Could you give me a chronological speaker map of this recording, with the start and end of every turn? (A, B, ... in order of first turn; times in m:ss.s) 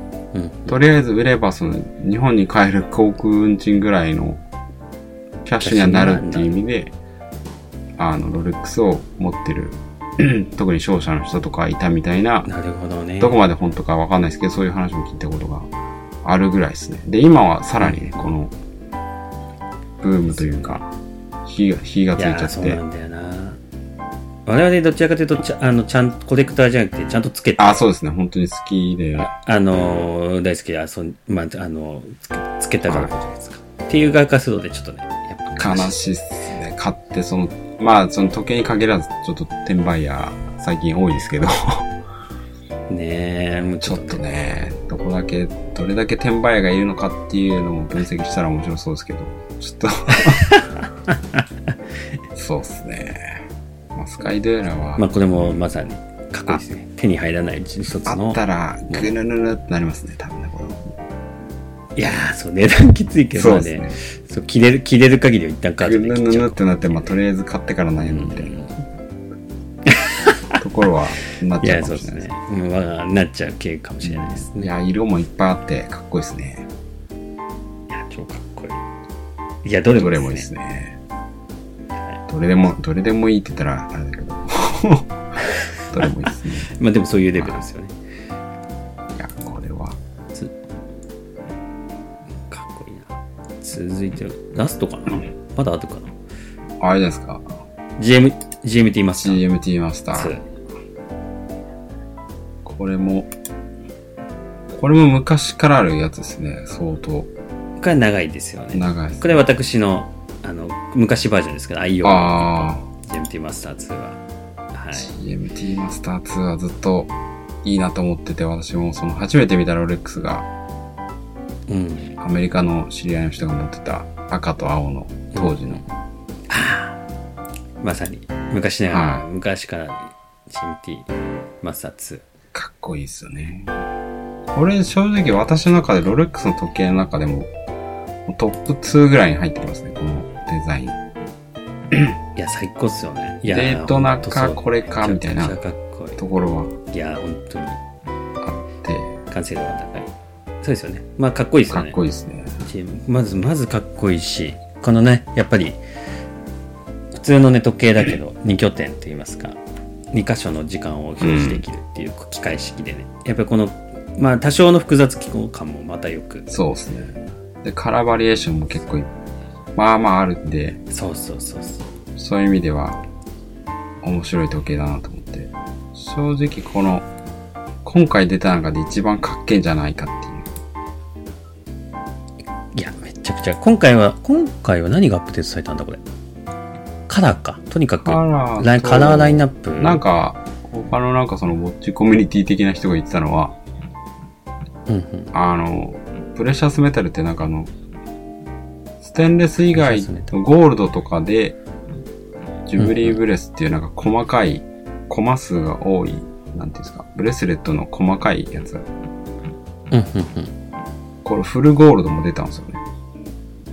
0:00.3-0:00.7 A
0:00.7-0:04.4 B
0:05.4-0:06.9 B
0:05.6-0:06.6 A
0:08.0-0:12.5 B
0:12.4-0:13.4 A
0:13.2-0:15.7 B
0:16.2-0:18.5 B
0:17.8-0:18.2 A
0:20.0-0:20.9 B
0:20.3-0:20.8 A
0:21.4-0:22.8 B
0:22.2-0:23.6 A
0:24.4-0:27.8 A
0:27.6-0:29.3 B
0:29.2-0:36.0 A
0:32.8-0:33.1 B
0:35.6-0:41.9 B
0:42.9-0:44.2 A
0:43.8-0:50.6 B
0:50.2-0:51.7 A
0:52.3-0:53.4 B
0:53.9-0:55.6 B
0:55.0-0:59.1 A
0:58.0-1:01.0 B
1:01.9-1:07.2 A
1:03.3-1:04.0 B
1:05.8-1:08.5 B
1:08.0-1:08.7 A
1:09.8-1:10.6 A
1:10.6-1:12.3 B
1:11.6-1:14.7 A
1:14.0-1:16.7 B
1:17.9-1:18.8 A
1:19.6-1:20.5 A
1:20.0-1:21.0 B
1:21.9-1:22.2 A
1:22.3-1:25.2 B
1:25.8-1:26.7 B
1:26.7-1:27.9 A
1:27.4-1:27.6 B
1:29.2-1:30.0 B
1:32.5-1:36.1 A
1:36.8-1:37.4 B
1:38.0-1:39.4 A
1:39.2-1:40.4 B
1:40.1-1:40.4 A
1:42.6-1:43.3 B
1:44.7-1:47.3 B
1:47.8-1:54.2 A
1:48.7-1:49.4 B
1:52.0-1:52.9 B
1:54.7-1:55.1 A
1:54.9-1:57.1 B
1:57.6-2:00.5 B
2:01.7-2:02.2 A
2:02.2-2:05.9 B
2:05.3-2:05.8 A
2:06.5-2:07.0 A
2:07.8-2:11.1 A
2:08.9-2:09.2 B
2:11.6-2:12.2 A
2:12.5-2:13.7 B
2:14.5-2:17.5 B
2:18.3-2:21.0 B
2:22.4-2:26.2 A
2:23.5-2:25.6 B
2:26.2-2:26.8 B
2:26.9-2:27.8 A
2:28.4-2:29.2 B
2:29.3-2:30.1 A
2:30.6-2:32.0 A
2:31.7-2:32.6 B
2:32.6-2:35.8 A
2:37.1-2:39.6 A
2:40.1-2:46.5 A
2:41.2-2:41.6 B
2:46.5-2:49.1 B
2:49.8-2:50.8 B
2:50.9-2:51.9 A
2:52.2-2:53.0 B
2:54.0-2:57.1 B
2:57.8-3:00.5 B
3:02.7-3:06.0 A
3:07.1-3:10.0 A
3:08.0-3:13.6 B
3:14.9-3:15.3 A
3:15.3-3:17.7 B
3:19.0-3:21.6 B
3:19.7-3:20.3 A
3:22.7-3:28.8 B
3:22.8-3:23.2 A
3:29.9-3:30.5 A
3:31.2-3:32.8 B